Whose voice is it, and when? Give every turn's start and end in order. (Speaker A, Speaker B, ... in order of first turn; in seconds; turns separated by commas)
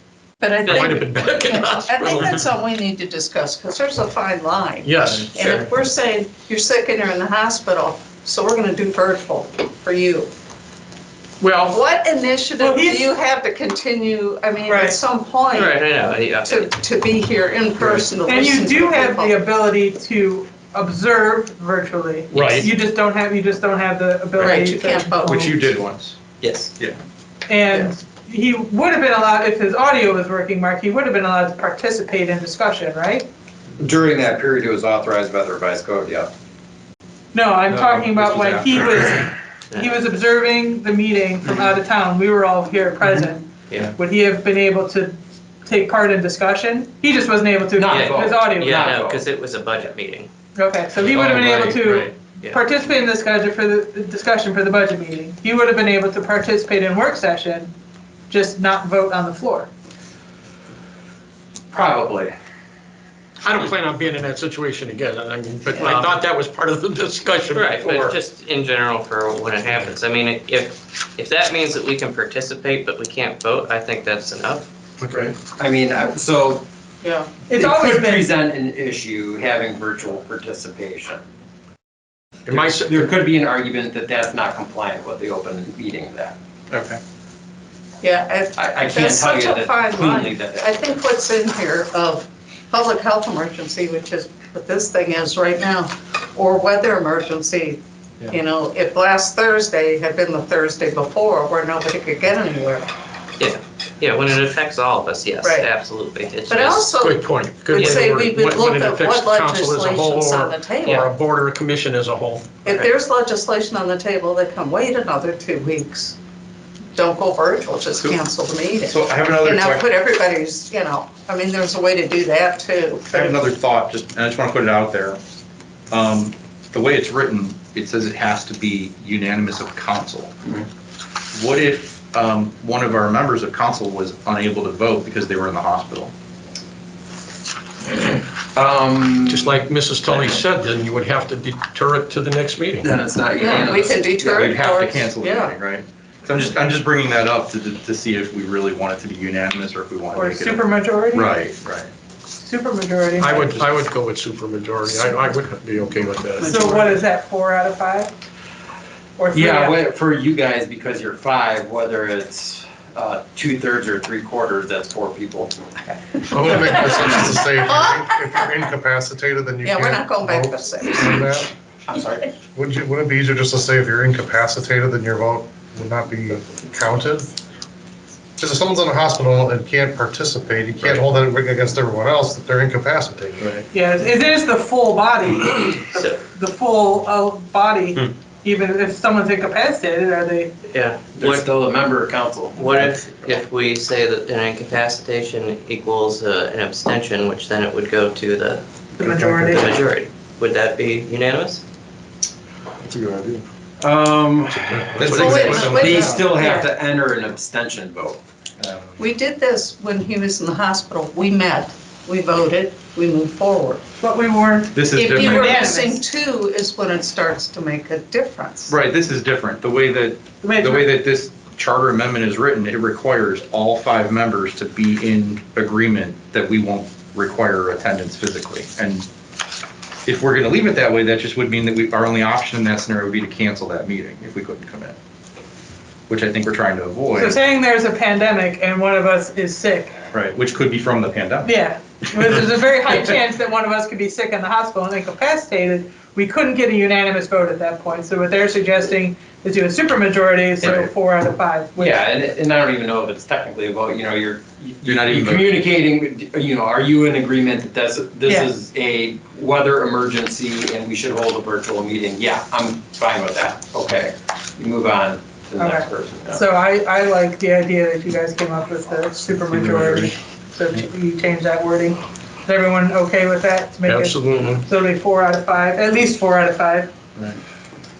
Speaker A: 0.4-10.3, Speaker B: 0.6-0.9, Speaker C: 0.7-2.4, Speaker C: 4.8-5.3, Speaker B: 5.3-5.6, Speaker C: 11.4-11.8, Speaker A: 11.7-15.8, Speaker D: 12.6-13.1, Speaker D: 14.7-15.0, Speaker B: 15.5-16.7, Speaker A: 16.4-19.4, Speaker D: 18.2-25.6, Speaker C: 22.3-22.7, Speaker A: 24.4-25.5, Speaker E: 25.3-26.2, Speaker B: 26.4-26.7, Speaker D: 27.5-33.3, Speaker F: 33.8-36.3, Speaker D: 37.3-49.0, Speaker E: 37.8-38.8, Speaker B: 43.7-43.9, Speaker F: 47.8-49.2, Speaker B: 47.9-50.3, Speaker D: 50.5-57.7, Speaker B: 51.1-52.6, Speaker D: 58.3-59.7, Speaker F: 61.7-62.3, Speaker C: 63.4-68.0, Speaker B: 65.7-66.1, Speaker B: 67.5-74.7, Speaker F: 67.8-68.1, Speaker C: 75.0-75.3, Speaker F: 75.4-76.6, Speaker A: 77.0-77.3, Speaker D: 77.5-78.3, Speaker F: 77.5-81.2, Speaker C: 82.5-83.0, Speaker F: 82.5-86.3, Speaker E: 86.7-87.0, Speaker A: 88.0-102.9, Speaker F: 88.5-90.7, Speaker B: 103.4-107.0, Speaker A: 105.4-105.7, Speaker A: 106.5-111.0, Speaker C: 107.0-112.8, Speaker B: 107.8-108.1, Speaker A: 112.6-116.2, Speaker A: 116.9-123.4, Speaker E: 118.0-118.2, Speaker E: 118.9-119.9, Speaker E: 123.1-125.2, Speaker E: 125.9-130.3, Speaker E: 131.3-136.1, Speaker F: 137.8-140.4, Speaker C: 139.3-142.9, Speaker F: 142.8-144.5, Speaker A: 143.4-145.5, Speaker E: 144.4-151.9, Speaker D: 150.1-151.3, Speaker D: 152.4-153.7, Speaker C: 153.2-156.7, Speaker A: 156.4-157.0, Speaker D: 156.4-158.1, Speaker D: 159.2-159.8, Speaker F: 159.3-165.6, Speaker A: 166.4-167.0, Speaker G: 166.4-167.2, Speaker E: 166.4-170.4, Speaker A: 167.6-168.5, Speaker G: 168.7-169.6, Speaker A: 169.6-171.2, Speaker G: 171.1-171.5, Speaker F: 171.9-172.4, Speaker E: 172.6-176.6, Speaker G: 172.7-177.3, Speaker G: 178.4-183.4, Speaker E: 180.7-182.1, Speaker E: 183.0-183.6, Speaker D: 183.7-190.5, Speaker B: 185.9-186.2, Speaker B: 190.7-191.5, Speaker F: 191.1-193.0, Speaker B: 192.6-201.6, Speaker D: 199.0-199.8, Speaker C: 202.9-203.3, Speaker F: 203.8-208.2, Speaker C: 204.7-206.2, Speaker E: 204.9-206.0, Speaker A: 205.1-206.6, Speaker D: 206.3-206.7, Speaker E: 208.6-209.0, Speaker A: 209.0-213.8, Speaker D: 214.0-216.0, Speaker E: 214.7-215.5, Speaker A: 214.9-218.7, Speaker E: 218.7-229.1, Speaker D: 220.4-220.9, Speaker E: 230.0-235.0, Speaker E: 236.1-237.4, Speaker D: 237.2-239.9, Speaker E: 240.1-241.5, Speaker D: 241.4-251.9, Speaker F: 251.8-266.4, Speaker E: 254.8-255.6, Speaker D: 258.2-258.5, Speaker D: 265.6-276.9, Speaker E: 269.5-270.1, Speaker C: 273.9-274.6